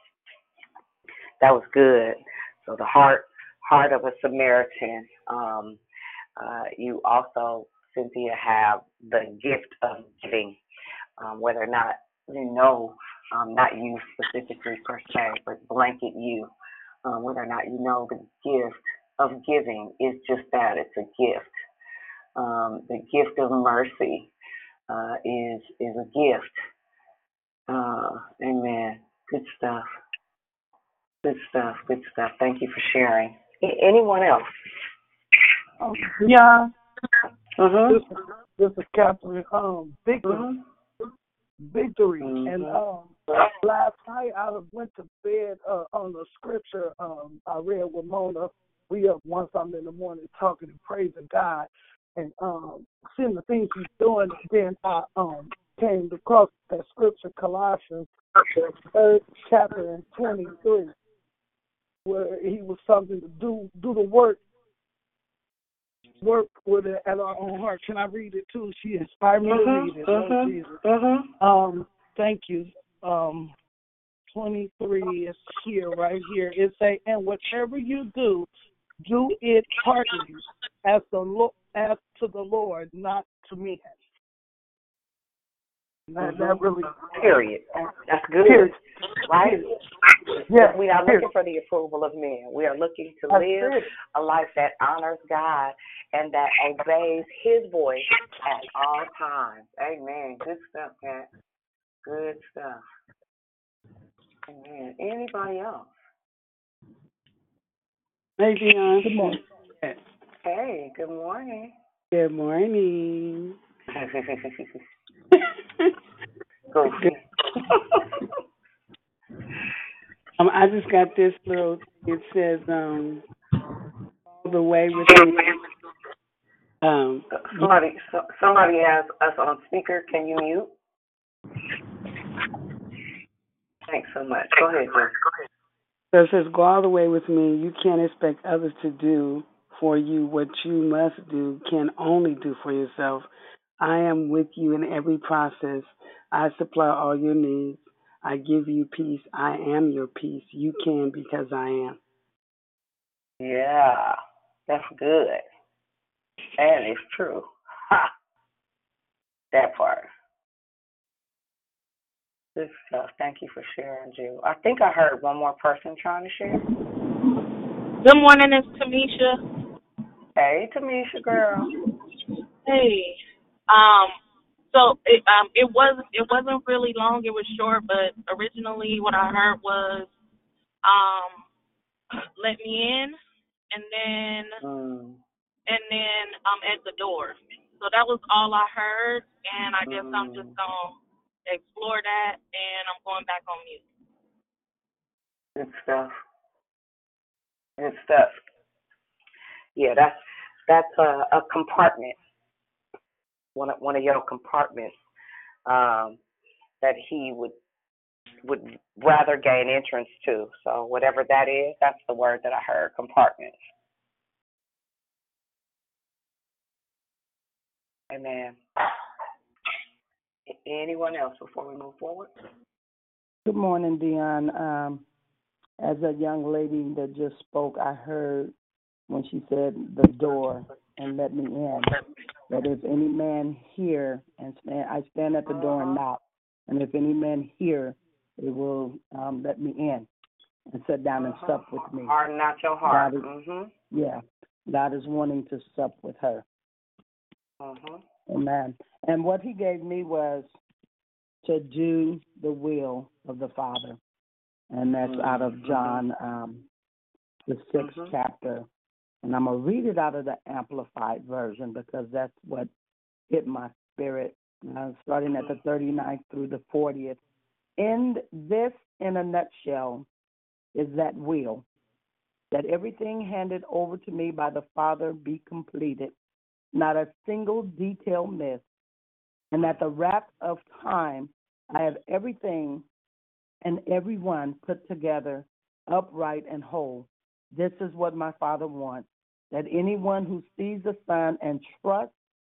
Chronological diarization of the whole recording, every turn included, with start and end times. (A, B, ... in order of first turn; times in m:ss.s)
0:01.4-0:05.8 A
0:06.4-0:10.6 A
0:11.2-0:16.5 A
0:17.0-0:21.6 A
0:22.4-0:24.3 A
0:24.9-0:26.6 A
0:27.7-0:29.9 A
0:31.2-0:34.5 A
0:35.8-0:36.6 B
0:37.6-0:38.0 A
0:37.9-0:40.5 B
0:40.2-0:40.6 A
0:41.7-0:58.1 B
0:42.2-0:42.8 A
0:58.8-1:00.9 B
1:02.1-1:04.4 B
1:06.2-1:10.8 B
1:09.5-1:11.3 A
1:11.4-1:13.5 B
1:14.3-1:18.5 B
1:19.0-1:24.0 B
1:26.1-1:27.1 B
1:26.2-1:28.7 A
1:29.3-1:29.6 A
1:30.5-1:31.2 B
1:30.5-1:41.3 A
1:33.4-1:33.7 B
1:42.0-1:42.8 A
1:44.5-1:45.9 A
1:48.4-1:50.0 C
1:49.0-1:49.3 D
1:50.4-1:51.7 A
1:52.1-1:53.6 C
1:53.9-1:54.7 A
1:56.7-1:58.0 A
2:00.4-2:03.2 C
2:04.4-2:05.6 C
2:06.8-2:07.7 C
2:07.3-2:10.7 A
2:13.9-2:15.2 A
2:16.1-2:23.3 C
2:23.8-2:32.0 C
2:33.4-2:35.4 A
2:36.6-2:38.1 A
2:39.5-2:40.1 A
2:42.6-2:46.6 A
2:48.0-2:49.4 E
2:50.4-2:51.7 A
2:52.7-2:53.2 E
2:53.7-2:54.2 E
2:54.7-3:00.1 E
3:00.9-3:01.4 E
3:02.4-3:03.2 E
3:03.7-3:04.6 E
3:04.6-3:05.2 A
3:05.7-3:13.8 E
3:09.8-3:10.5 A
3:15.6-3:16.1 A
3:17.8-3:18.4 A
3:19.8-3:22.2 A
3:23.6-3:24.9 A
3:25.7-3:26.2 A
3:26.8-3:27.6 A
3:28.4-3:33.6 A
3:38.1-3:38.6 A
3:40.5-3:42.3 A
3:43.4-3:45.0 D
3:45.8-3:48.5 D
3:49.1-3:51.9 D
3:52.5-4:00.1 D
3:55.5-3:56.0 A
4:00.7-4:02.1 D
4:01.2-4:03.7 A
4:02.8-4:03.3 D
4:03.9-4:06.4 D
4:07.6-4:08.0 A
4:08.3-4:10.5 D
4:11.4-4:14.0 D
4:14.7-4:16.6 D
4:15.0-4:16.0 A
4:17.5-4:18.7 D
4:17.8-4:18.1 A
4:19.2-4:22.7 D
4:23.3-4:27.2 D
4:27.8-4:30.1 D
4:30.8-4:31.6 D
4:32.5-4:36.1 D
4:36.7-4:38.6 D
4:39.5-4:42.8 D
4:43.6-4:52.1 D